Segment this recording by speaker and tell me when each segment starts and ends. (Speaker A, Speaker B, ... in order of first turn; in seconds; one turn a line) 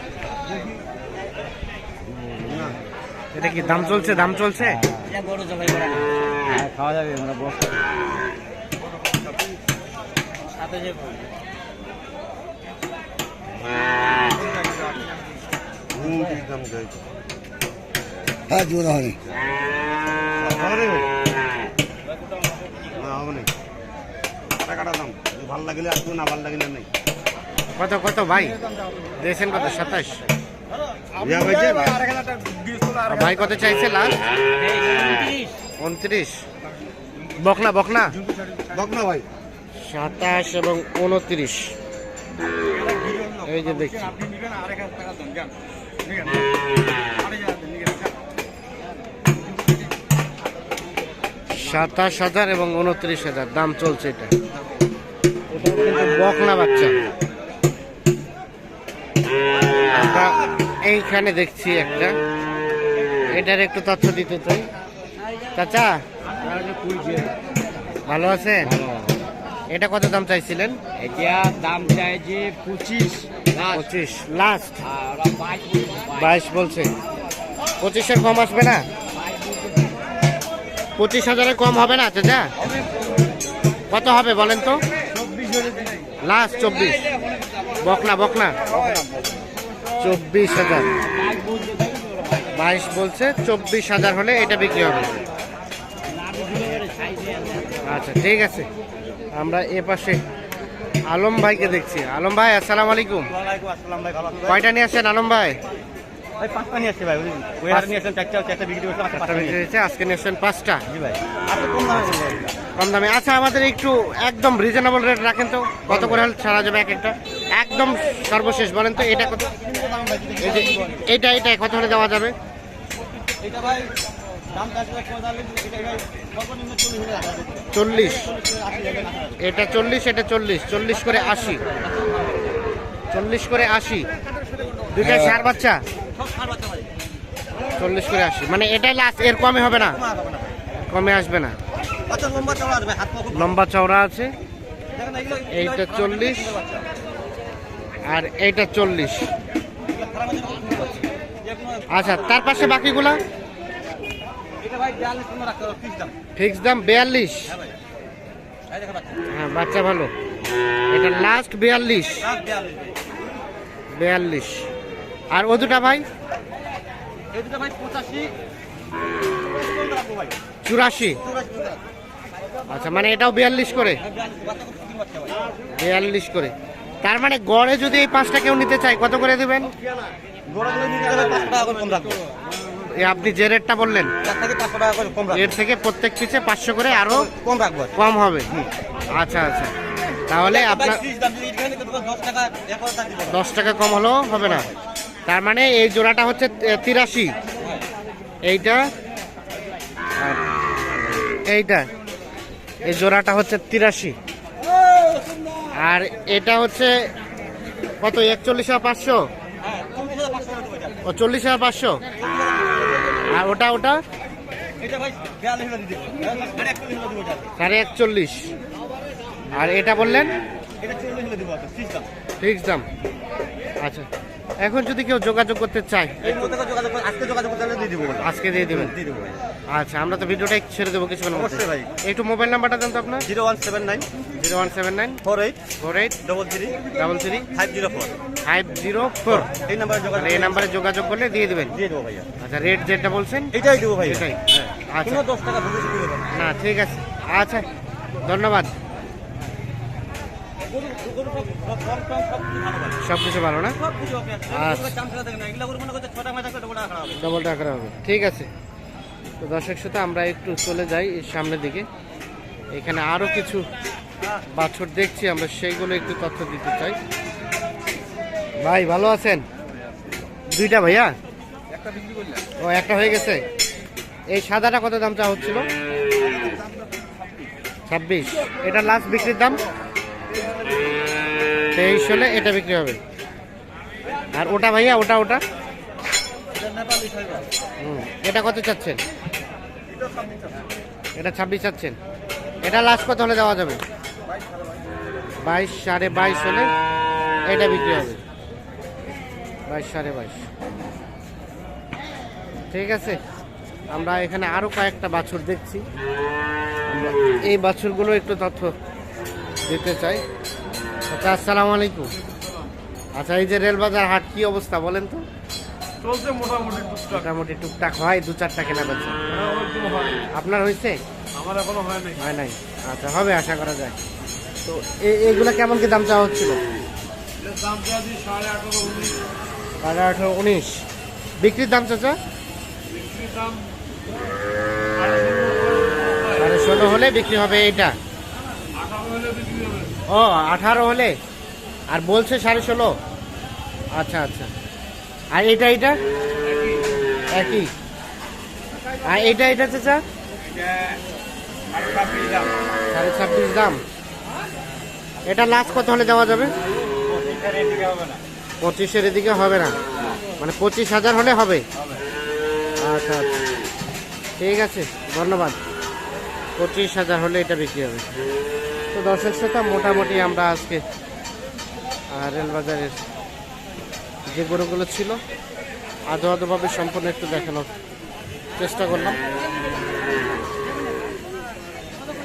Speaker A: 2.3-2.7
Speaker A: 3.3-4.8
Speaker B: 3.9-7.7
Speaker B: 10.6-11.1
Speaker C: 14.3-15.1
Speaker D: 16.0-16.9
Speaker C: 16.0-16.7
Speaker D: 18.6-19.0
Speaker C: 20.4-21.0
Speaker C: 22.9-23.5
Speaker C: 24.6-26.8
Speaker A: 27.8-28.6
Speaker A: 29.2-30.2
Speaker C: 31.0-33.1
Speaker A: 33.0-34.2
Speaker B: 34.6-35.5
Speaker A: 35.8-36.4
Speaker A: 37.4-38.1
Speaker C: 38.6-39.2
Speaker A: 39.8-41.7
Speaker C: 42.7-46.4
Speaker A: 43.4-44.1
Speaker C: 47.2-48.1
Speaker A: 51.5-54.3
Speaker A: 55.5-57.0
Speaker A: 59.9-62.1
Speaker A: 63.3-64.7
Speaker A: 65.5-66.0
Speaker B: 66.4-67.3
Speaker A: 68.0-68.8
Speaker B: 68.7-69.1
Speaker A: 69.7-70.8
Speaker B: 71.0-73.8
Speaker A: 73.7-74.8
Speaker B: 74.8-76.3
Speaker A: 76.1-76.9
Speaker A: 77.8-78.8
Speaker A: 81.0-82.5
Speaker A: 83.9-84.8
Speaker A: 86.2-87.1
Speaker A: 87.8-88.6
Speaker A: 90.0-90.9
Speaker B: 91.2-92.4
Speaker A: 92.5-95.2
Speaker B: 96.1-97.8
Speaker A: 97.8-98.7
Speaker A: 99.3-100.2
Speaker A: 101.1-103.3
Speaker C: 103.3-104.6
Speaker A: 104.5-105.6
Speaker C: 106.4-109.6
Speaker A: 109.1-110.8
Speaker C: 110.9-112.6
Speaker A: 112.8-119.4
Speaker C: 115.8-116.2
Speaker C: 119.0-121.1
Speaker A: 120.4-122.3
Speaker C: 123.3-123.9
Speaker C: 124.5-129.4
Speaker A: 127.7-128.3
Speaker A: 129.4-131.6
Speaker C: 130.9-132.3
Speaker A: 133.1-134.1
Speaker A: 134.9-135.8
Speaker C: 135.0-135.3
Speaker C: 136.1-136.9
Speaker A: 137.8-140.0
Speaker C: 139.8-140.5
Speaker A: 140.8-141.6
Speaker C: 142.1-143.5
Speaker A: 143.3-144.3
Speaker C: 144.9-146.9
Speaker A: 145.5-146.6
Speaker A: 148.1-149.3
Speaker C: 149.9-152.4
Speaker A: 151.9-153.2
Speaker C: 154.6-156.1
Speaker A: 156.3-157.5
Speaker C: 157.5-157.7
Speaker C: 158.7-159.2
Speaker A: 159.3-160.1
Speaker A: 160.9-162.3
Speaker C: 162.2-163.0
Speaker A: 163.9-164.7
Speaker A: 165.3-166.1
Speaker C: 167.3-168.3
Speaker C: 169.5-170.4
Speaker A: 170.6-171.2
Speaker C: 171.2-171.8
Speaker A: 172.7-174.0
Speaker C: 174.0-175.5
Speaker A: 175.8-179.7
Speaker C: 180.5-182.2
Speaker A: 182.8-184.1
Speaker C: 184.2-185.6
Speaker A: 185.3-187.3
Speaker C: 187.0-188.7
Speaker A: 187.9-188.5
Speaker A: 189.1-189.7
Speaker A: 190.3-191.0
Speaker C: 190.4-193.4
Speaker A: 193.3-194.7
Speaker A: 195.3-197.4
Speaker A: 198.5-198.8
Speaker A: 201.4-201.9
Speaker A: 202.8-204.2
Speaker A: 205.8-206.9
Speaker A: 208.0-209.2
Speaker C: 209.6-211.0
Speaker A: 211.0-212.0
Speaker C: 212.4-212.8
Speaker A: 213.2-214.0
Speaker C: 214.8-217.5
Speaker A: 217.6-218.5
Speaker A: 219.5-220.3
Speaker C: 220.8-222.1
Speaker A: 222.4-222.8
Speaker A: 223.8-224.1
Speaker A: 224.6-226.4
Speaker C: 226.2-229.3
Speaker A: 228.2-228.9
Speaker A: 229.7-233.3
Speaker C: 231.3-231.9
Speaker C: 233.2-234.1
Speaker A: 234.4-235.2
Speaker C: 235.2-235.6
Speaker A: 235.8-236.2
Speaker C: 236.2-236.8
Speaker A: 236.9-237.5
Speaker C: 237.5-238.1
Speaker A: 238.4-239.5
Speaker C: 239.3-240.7
Speaker A: 240.1-241.8
Speaker C: 241.7-242.3
Speaker A: 242.4-245.2
Speaker C: 243.5-246.4
Speaker A: 246.3-247.7
Speaker A: 248.2-248.7
Speaker C: 250.7-253.0
Speaker A: 253.0-253.8
Speaker C: 253.7-257.2
Speaker A: 254.5-254.9
Speaker A: 257.1-258.5
Speaker A: 259.4-261.9
Speaker A: 262.7-263.6
Speaker A: 264.5-267.0
Speaker A: 268.6-269.4
Speaker A: 270.5-271.1
Speaker A: 272.6-273.4
Speaker A: 274.3-275.6
Speaker A: 277.9-279.6
Speaker A: 281.7-283.0
Speaker A: 284.3-285.4
Speaker C: 286.6-287.4
Speaker A: 287.8-289.0
Speaker C: 290.0-290.5
Speaker A: 291.1-291.9
Speaker A: 292.6-293.8
Speaker A: 295.4-296.7
Speaker A: 297.5-298.2
Speaker A: 299.7-300.4
Speaker A: 302.7-303.2
Speaker A: 303.9-305.8
Speaker A: 306.9-308.7
Speaker A: 309.7-310.2
Speaker A: 311.1-312.1
Speaker A: 313.1-315.2
Speaker D: 316.0-317.2
Speaker A: 317.1-319.1
Speaker D: 319.3-320.2
Speaker A: 320.3-321.0
Speaker D: 321.4-322.2
Speaker A: 322.2-324.0
Speaker A: 324.6-326.6
Speaker D: 327.4-329.2
Speaker A: 329.8-330.8
Speaker A: 331.4-332.2
Speaker D: 332.9-333.6
Speaker D: 335.0-336.4
Speaker A: 336.4-337.9
Speaker D: 338.8-339.9
Speaker A: 340.1-341.1
Speaker A: 341.9-343.0
Speaker A: 343.9-344.5
Speaker A: 345.3-346.0
Speaker A: 347.3-347.7
Speaker A: 349.0-350.0
Speaker C: 351.8-352.5
Speaker A: 352.9-353.8
Speaker A: 355.2-356.5
Speaker C: 357.1-358.2
Speaker A: 358.6-359.8
Speaker A: 360.4-361.6
Speaker A: 362.8-363.4
Speaker A: 364.4-365.6
Speaker A: 366.6-368.1
Speaker A: 368.9-370.8
Speaker A: 372.1-373.0
Speaker A: 374.3-375.2
Speaker A: 376.1-377.7
Speaker A: 378.6-379.2